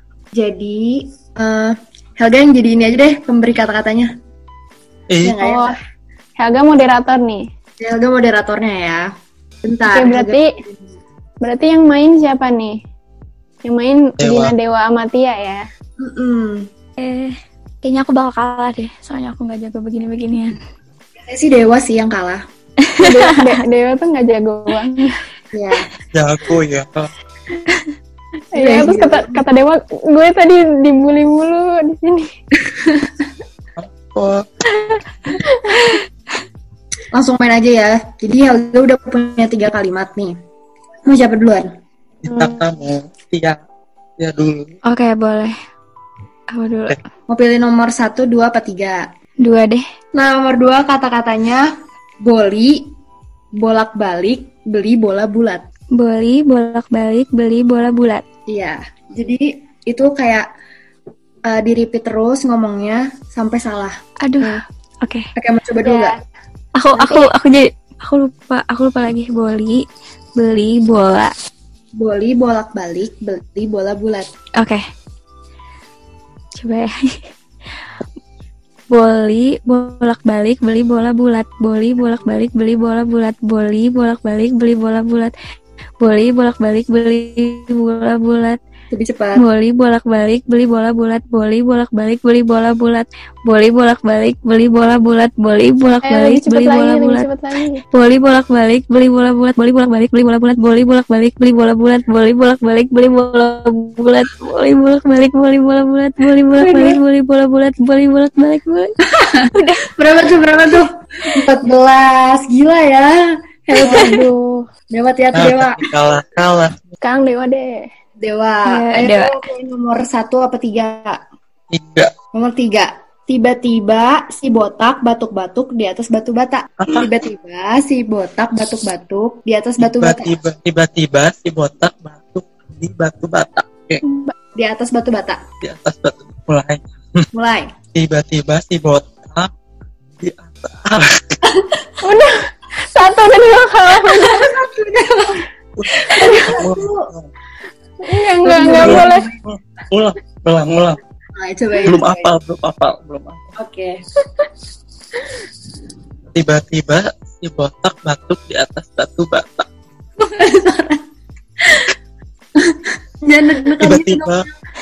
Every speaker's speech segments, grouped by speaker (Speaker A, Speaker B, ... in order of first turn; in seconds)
Speaker A: 0.3-4.1, 5.2-5.8, 7.8-9.1, 9.6-10.9, 16.0-16.7, 21.2-22.4, 25.5-25.9, 28.5-29.4, 32.6-33.2, 37.1-40.4, 41.0-41.7, 47.3-49.1, 50.1-51.7, 52.2-52.9, 53.6-55.6, 58.5-60.5, 61.5-64.6, 65.3-66.1, 72.0-74.3, 88.9-89.4, 109.1-114.3, 114.9-115.9, 118.2-121.2, 122.3-130.3, 134.6-135.4, 137.3-137.7, 141.4-141.8, 144.1-147.1, 148.4-149.3, 151.3-152.3, 153.6-154.0, 160.2-161.0, 161.6-161.9, 162.6-164.5
Speaker B: 5.1-5.4, 14.2-14.5, 26.1-27.1, 33.8-34.4, 42.2-43.6, 44.2-44.7, 115.3-116.9, 121.7-122.1, 126.8-127.1, 129.8-134.0, 135.6-137.3, 137.9-139.5, 140.2-141.3, 145.8-147.3, 148.8-151.0, 151.8-153.5, 156.3-159.7, 163.8-164.4
Speaker C: 5.4-5.8, 6.4-7.5, 9.9-10.5, 11.4-12.8, 13.6-15.6, 23.0-25.2, 28.5-32.3, 35.4-36.0, 96.0-97.8, 106.6-107.0, 113.8-114.7, 117.0-117.9, 134.0-134.3, 142.0-144.5, 146.1-146.5, 148.0-149.3
Speaker D: 17.0-20.6, 22.8-23.6, 44.8-45.5, 46.5-47.0, 49.4-49.8, 55.9-58.2, 64.2-65.3, 66.7-69.8, 70.4-71.3, 74.6-74.8, 76.5-77.3, 78.9-85.3, 86.0-88.6, 89.3-97.2, 97.9-108.9, 109.5-109.8, 118.6-119.4